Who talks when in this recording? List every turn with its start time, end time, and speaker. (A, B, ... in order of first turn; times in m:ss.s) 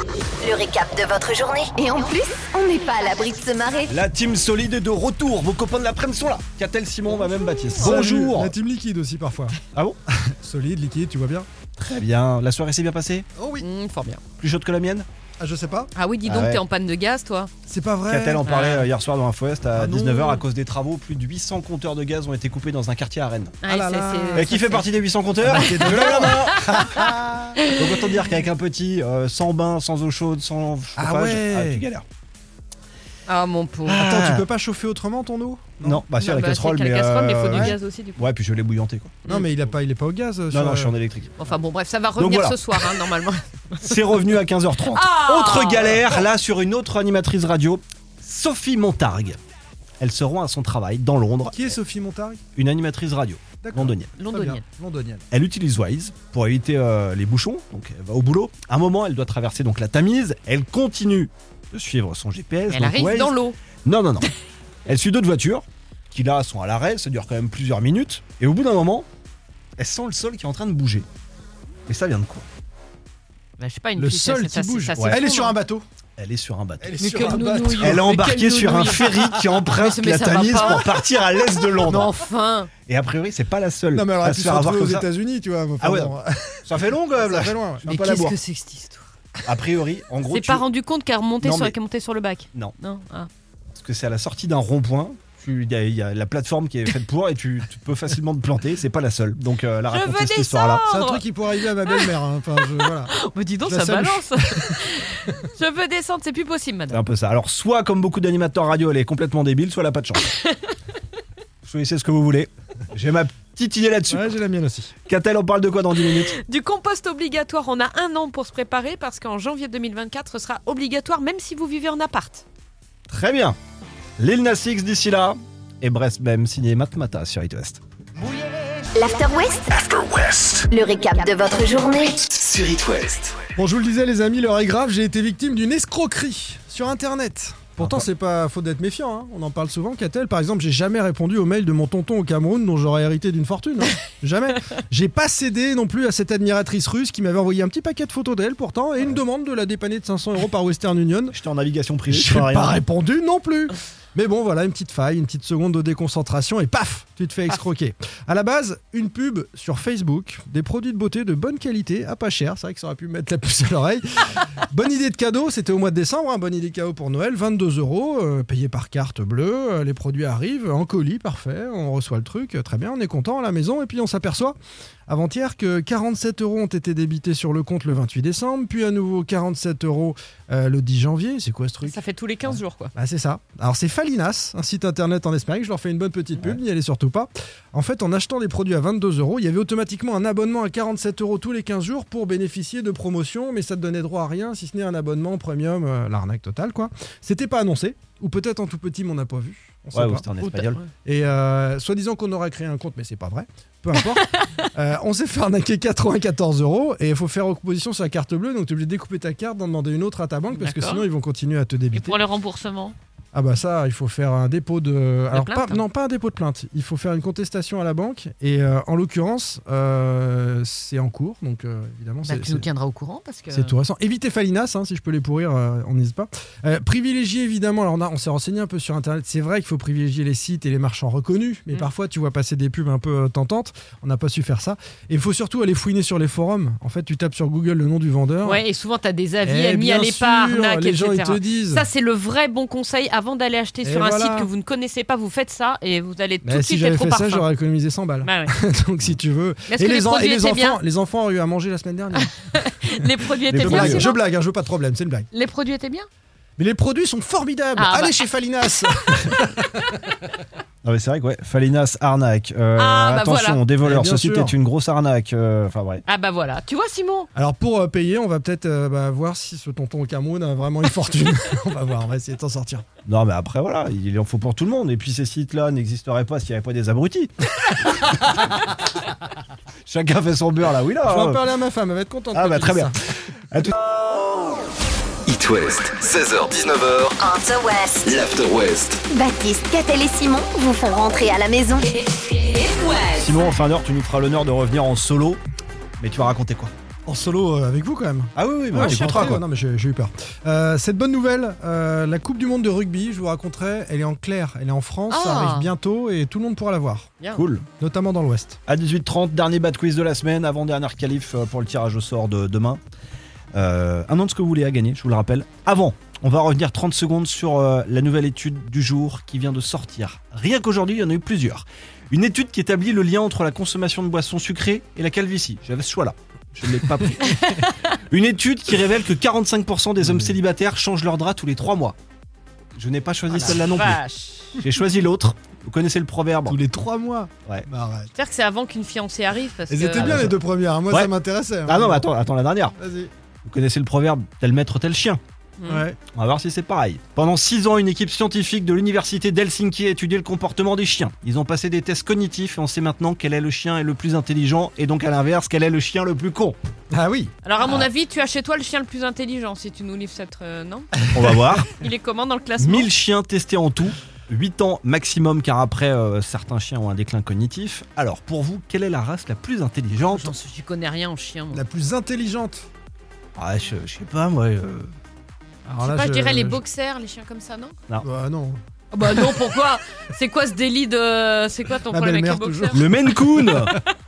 0:00.4-0:03.9 A
0:03.9-0:08.5 B
0:07.6-0:08.0 C
0:07.8-0:09.6 D
0:09.7-0:10.0 B
0:10.3-0:11.5 D
0:11.8-0:13.3 B
0:13.4-0:13.7 D
0:13.6-0:14.2 C
0:14.4-0:15.1 B
0:15.4-0:15.9 D
0:15.9-0:17.5 C
0:16.2-0:16.6 B
0:17.7-0:18.7 D
0:18.1-0:23.6 B
0:18.4-0:18.9 C
0:19.7-0:20.4 D
0:23.6-0:24.9 C
0:23.6-0:24.6 D
0:24.4-0:27.2 B
0:25.4-0:27.6 D
0:25.6-0:28.0 C
0:27.7-0:32.0 B
0:31.0-0:31.8 D
0:33.3-0:34.0 C
0:33.9-0:34.5 B
0:34.0-0:36.0 D
0:35.8-0:39.2 B
0:36.2-0:38.2 C
0:37.5-0:37.8 D
0:39.3-0:41.0 D
0:40.5-0:41.3 B
0:41.4-0:44.0 C
0:42.2-0:43.0 B
0:43.8-0:49.4 B
0:44.9-0:46.0 C
0:50.0-0:51.7 B
0:51.5-0:52.4 D
0:52.6-0:54.2 B
0:53.6-0:55.2 D
0:54.2-0:54.6 C
0:55.3-1:04.3 B
1:02.7-1:03.6 C
1:04.9-1:09.1 B
1:09.8-1:11.1 B
1:11.9-1:12.5 B
1:13.6-1:15.6 C
1:14.0-1:15.9 D
1:16.2-1:17.0 B
1:16.8-1:18.1 D
1:17.0-1:20.9 C
1:17.8-1:22.1 B
1:18.9-1:19.6 D
1:21.9-1:22.7 C
1:21.9-1:22.1 D
1:22.9-1:25.1 B
1:23.9-1:27.8 D
1:25.8-1:26.1 B
1:26.7-1:28.4 B
1:27.9-1:29.1 C
1:29.5-1:30.6 B
1:30.3-1:33.3 C
1:31.4-1:31.8 B
1:33.8-1:40.8 B
1:39.9-1:41.2 C
1:40.9-1:43.1 D
1:41.8-1:42.1 C
1:43.1-1:47.0 C
1:43.6-1:44.8 D
1:46.9-1:50.3 B
1:50.3-1:50.7 C
1:51.6-1:54.3 B
1:54.1-1:54.9 D
1:55.1-1:56.3 B
1:56.2-2:02.4 C
2:03.1-2:03.6 B
2:04.2-2:07.8 B
2:09.0-2:09.7 A
2:09.8-2:10.7 E
2:10.7-2:12.2 A
2:12.3-2:13.3 E
2:13.6-2:31.4 D
2:17.8-2:18.1 B
2:31.3-2:32.8 B
2:32.1-2:54.6 D
2:55.1-3:20.3 D
3:01.8-3:02.9 C
3:19.9-3:20.8 B
3:20.4-3:20.9 C
3:21.0-3:32.2 D
3:30.5-3:31.1 C
3:31.9-3:33.0 C
3:33.3-3:42.7 D
3:35.3-3:35.8 C
3:42.2-3:43.7 C
3:43.5-3:58.6 D
3:58.4-4:07.4 C
3:59.4-4:01.9 D
4:03.8-4:04.5 D
4:06.4-4:12.3 D
4:08.2-4:08.5 C
4:09.7-4:10.8 C
4:12.2-4:14.2 C
4:13.5-4:14.1 B
4:13.6-4:15.3 D
4:15.3-4:16.1 C
4:16.6-4:19.7 D
4:17.8-4:18.2 C
4:20.8-4:26.0 B
4:22.8-4:23.6 C
4:23.8-4:24.6 D
4:26.1-4:27.3 C
4:27.4-4:32.8 D
4:33.1-4:37.3 B
4:39.9-4:41.4 B
4:41.1-4:42.9 D
4:42.3-4:42.9 B
4:45.3-4:47.2 E
4:47.2-4:48.2 A
4:48.0-4:49.0 E
4:49.1-4:51.9 A
4:52.5-4:53.2 A
4:53.1-4:55.4 B
4:56.0-4:56.7 B
4:57.1-5:07.1 D
4:58.4-4:59.4 B
4:58.8-4:59.4 C
5:05.1-5:05.7 C
5:07.3-5:07.6 B
5:07.8-5:08.6 D
5:08.7-5:12.8 B
5:13.5-5:27.2 B
5:27.1-5:27.6 D
5:28.0-5:32.0 B
5:30.0-5:30.3 D
5:32.8-5:34.0 B
5:33.3-5:34.6 C
5:34.6-5:36.6 B
5:36.5-5:38.1 D
5:38.2-5:40.4 C
5:39.7-5:42.1 D
5:40.0-5:40.3 B
5:41.7-5:42.8 B
5:42.8-5:43.1 D
5:43.4-5:45.2 B
5:45.6-5:45.9 C
5:45.7-5:46.0 D
5:46.1-5:56.6 B
5:56.9-5:57.3 D
5:57.4-6:01.0 C
5:57.6-5:57.9 B
6:01.1-6:01.7 B
6:01.5-6:02.9 C
6:02.6-6:10.3 B
6:10.1-6:11.6 C
6:11.5-6:12.7 D
6:13.4-6:14.9 B
6:15.7-6:16.6 D
6:15.8-6:17.7 C
6:18.0-6:19.6 D
6:18.9-6:23.2 C
6:21.9-6:23.8 D
6:22.7-6:23.7 B